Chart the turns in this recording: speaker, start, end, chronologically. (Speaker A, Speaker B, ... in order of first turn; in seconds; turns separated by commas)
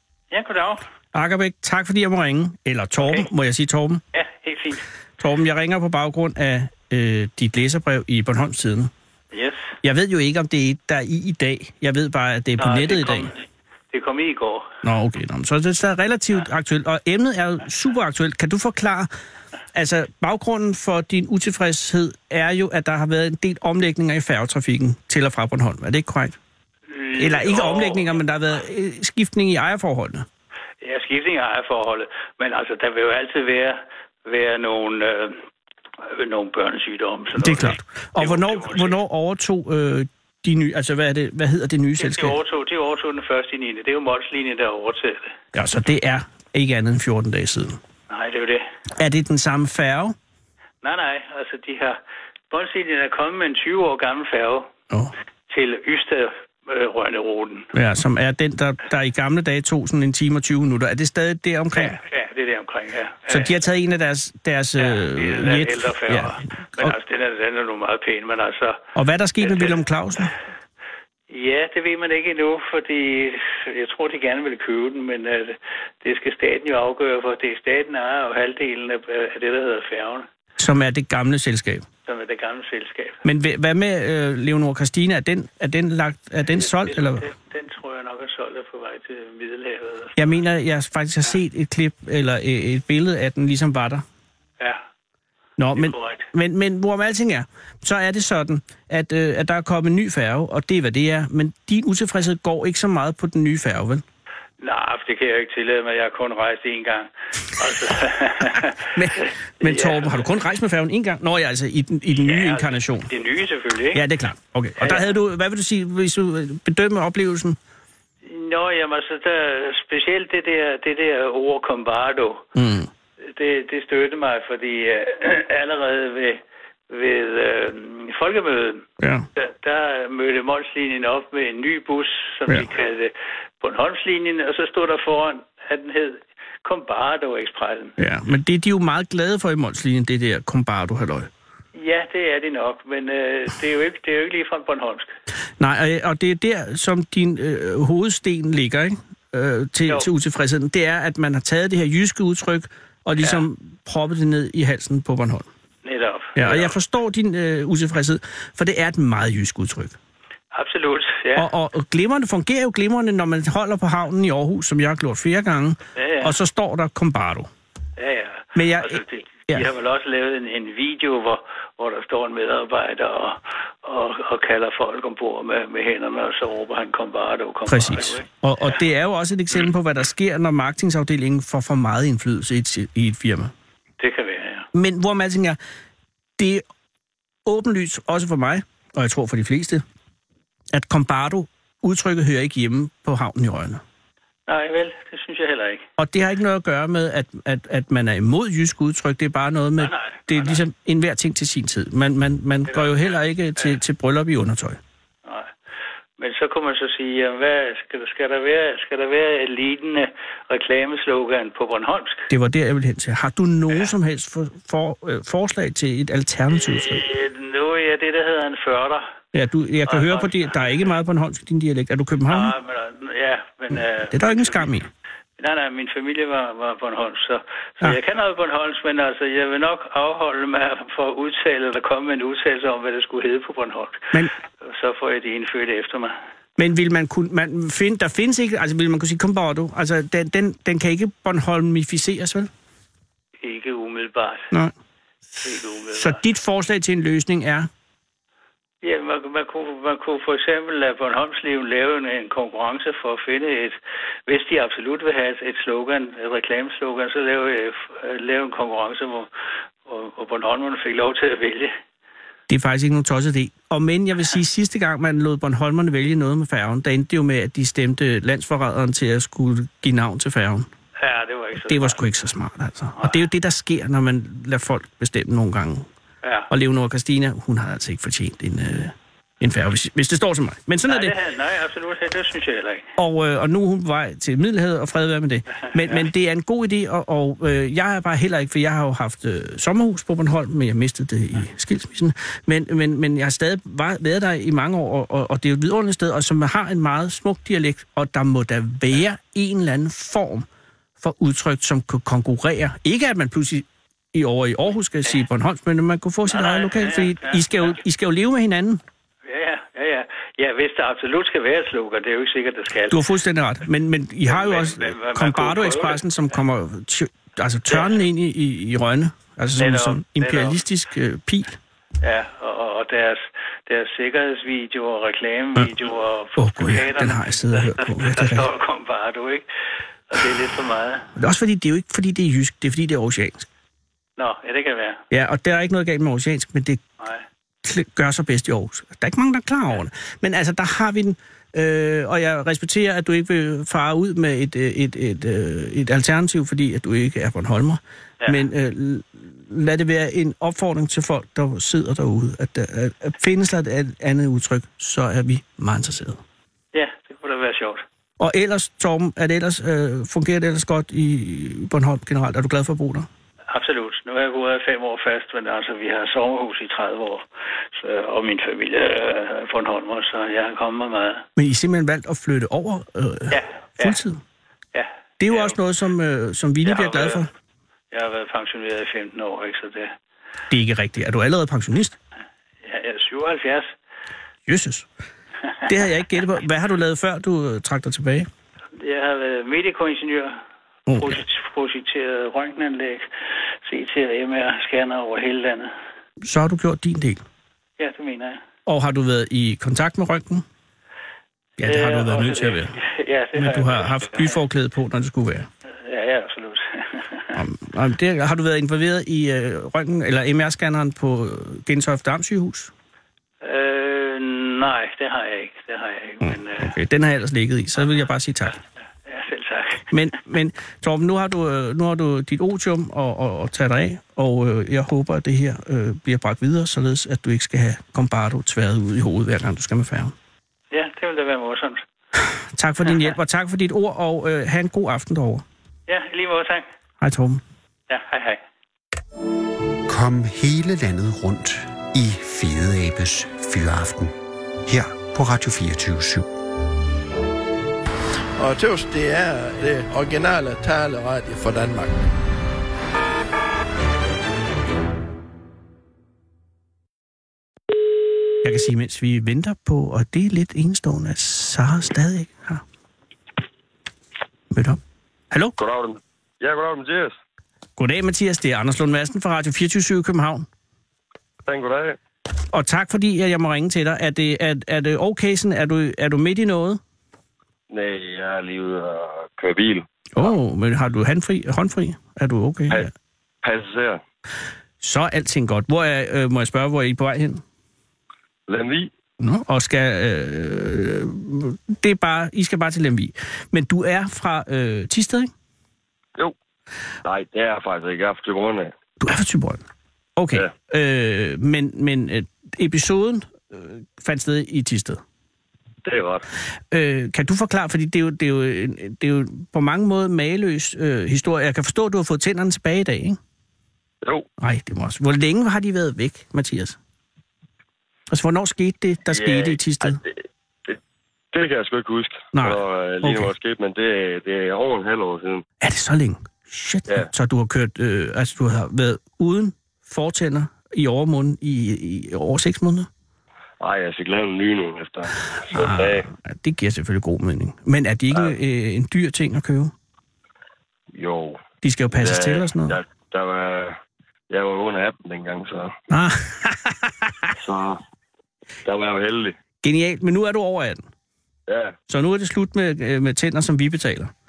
Speaker A: 0.3-0.8, Speaker B: 1.1-4.0, Speaker A: 3.0-3.3, Speaker A: 4.1-4.8, Speaker B: 5.2-8.9, Speaker A: 9.3-9.7, Speaker B: 9.8-13.3, Speaker A: 12.6-14.7, Speaker B: 14.8-19.1, Speaker B: 19.7-26.4, Speaker A: 26.9-28.2, Speaker B: 27.2-30.2, Speaker A: 30.8-35.4, Speaker A: 36.0-39.0, Speaker B: 37.4-42.4, Speaker A: 42.0-45.3, Speaker B: 45.5-47.8, Speaker A: 48.1-48.6, Speaker B: 49.0-50.1, Speaker A: 50.8-52.0, Speaker A: 52.5-54.7, Speaker A: 55.5-57.7, Speaker B: 57.7-62.0, Speaker A: 61.8-63.5, Speaker B: 63.3-67.0, Speaker A: 64.8-68.8, Speaker B: 68.9-70.3, Speaker A: 69.4-69.8, Speaker A: 71.3-80.3, Speaker B: 80.6-81.9, Speaker A: 82.0-83.2, Speaker B: 83.2-87.2, Speaker A: 86.5-90.4, Speaker B: 90.2-94.0, Speaker B: 95.6-104.0, Speaker A: 95.7-96.2, Speaker A: 104.6-110.3, Speaker B: 108.9-113.1, Speaker A: 112.1-114.0, Speaker B: 113.9-117.6, Speaker A: 114.8-115.1, Speaker A: 118.2-122.5, Speaker B: 122.5-122.9, Speaker A: 123.2-137.9, Speaker B: 129.0-129.3, Speaker B: 138.0-141.3, Speaker A: 141.8-145.1, Speaker B: 145.6-155.5, Speaker A: 155.8-156.7, Speaker B: 156.3-160.0, Speaker A: 160.5-161.5, Speaker B: 161.3-167.5, Speaker A: 165.9-166.3, Speaker A: 168.0-178.8, Speaker B: 168.5-169.7, Speaker B: 177.7-183.5, Speaker A: 184.0-184.7, Speaker B: 184.7-185.6, Speaker B: 186.4-186.6, Speaker B: 187.4-189.8, Speaker B: 190.7-193.8, Speaker A: 194.5-195.8, Speaker B: 196.0-204.8, Speaker A: 199.8-200.6, Speaker A: 202.7-203.0, Speaker A: 205.2-205.5, Speaker A: 206.2-212.2, Speaker B: 212.3-217.0, Speaker A: 216.5-219.0, Speaker B: 219.3-222.5, Speaker A: 219.8-220.8, Speaker A: 222.3-224.7, Speaker B: 223.7-224.9, Speaker A: 225.4-236.1, Speaker B: 236.6-242.5, Speaker A: 243.4-244.5, Speaker B: 245.4-247.7, Speaker A: 245.4-246.2, Speaker A: 248.8-259.3, Speaker A: 259.8-261.7, Speaker B: 262.5-270.7, Speaker A: 271.0-272.0, Speaker B: 271.5-275.9, Speaker A: 276.2-276.5, Speaker B: 276.5-281.1, Speaker A: 280.9-282.9, Speaker B: 283.0-300.5, Speaker B: 301.0-308.8, Speaker A: 306.2-307.5, Speaker A: 309.2-313.0, Speaker B: 312.9-321.6, Speaker A: 314.2-316.0, Speaker A: 317.7-317.9, Speaker A: 319.6-320.6, Speaker A: 322.0-329.4, Speaker B: 326.4-328.5, Speaker A: 330.1-331.1, Speaker B: 331.1-333.5, Speaker A: 334.2-335.0, Speaker B: 335.1-336.8, Speaker A: 337.0-337.2, Speaker B: 337.6-356.2, Speaker A: 356.7-357.8, Speaker B: 358.2-363.1, Speaker A: 363.5-371.2, Speaker B: 371.4-374.2, Speaker A: 373.3-374.0, Speaker A: 374.7-375.6, Speaker B: 375.2-377.3, Speaker A: 376.6-377.3, Speaker A: 377.9-379.9, Speaker B: 380.5-381.9, Speaker A: 382.6-383.7, Speaker B: 384.5-384.9, Speaker B: 385.6-388.3, Speaker A: 388.8-390.4, Speaker B: 390.9-391.2, Speaker A: 390.9-393.1, Speaker A: 393.6-395.7, Speaker B: 396.2-397.2, Speaker A: 397.8-398.4, Speaker B: 398.6-400.4, Speaker B: 401.6-402.8, Speaker A: 401.6-404.4, Speaker B: 403.3-405.5, Speaker A: 405.7-407.4, Speaker B: 407.3-412.7, Speaker A: 413.4-416.7, Speaker B: 416.2-418.6, Speaker A: 419.1-419.9, Speaker B: 419.9-430.1, Speaker A: 430.7-431.8, Speaker B: 432.2-435.4, Speaker A: 435.9-436.6, Speaker B: 437.0-437.4, Speaker A: 437.9-438.4, Speaker C: 439.9-444.1, Speaker C: 444.6-446.3, Speaker D: 448.4-452.0, Speaker B: 458.4-462.6, Speaker B: 464.5-464.8, Speaker E: 465.6-467.2, Speaker B: 467.8-470.5, Speaker E: 471.5-472.0, Speaker B: 472.5-476.8, Speaker E: 477.7-480.3, Speaker B: 480.1-482.9, Speaker E: 483.4-484.0, Speaker B: 484.8-487.4, Speaker E: 488.5-488.9, Speaker B: 489.2-495.3, Speaker E: 497.0-498.7, Speaker B: 499.0-499.6, Speaker B: 500.2-505.0, Speaker E: 505.8-506.2, Speaker B: 506.7-513.2, Speaker E: 514.0-514.3, Speaker B: 514.4-516.8, Speaker B: 518.1-520.0, Speaker E: 519.1-520.8, Speaker E: 521.3-525.4, Speaker B: 522.3-523.3, Speaker B: 525.6-532.9, Speaker E: 533.6-536.1, Speaker B: 535.5-539.7, Speaker E: 540.9-543.8, Speaker B: 541.6-542.8, Speaker E: 544.3-545.7, Speaker B: 545.9-547.3, Speaker E: 547.4-547.8, Speaker E: 548.6-549.4, Speaker B: 549.6-550.8, Speaker E: 551.5-551.8, Speaker B: 551.9-554.1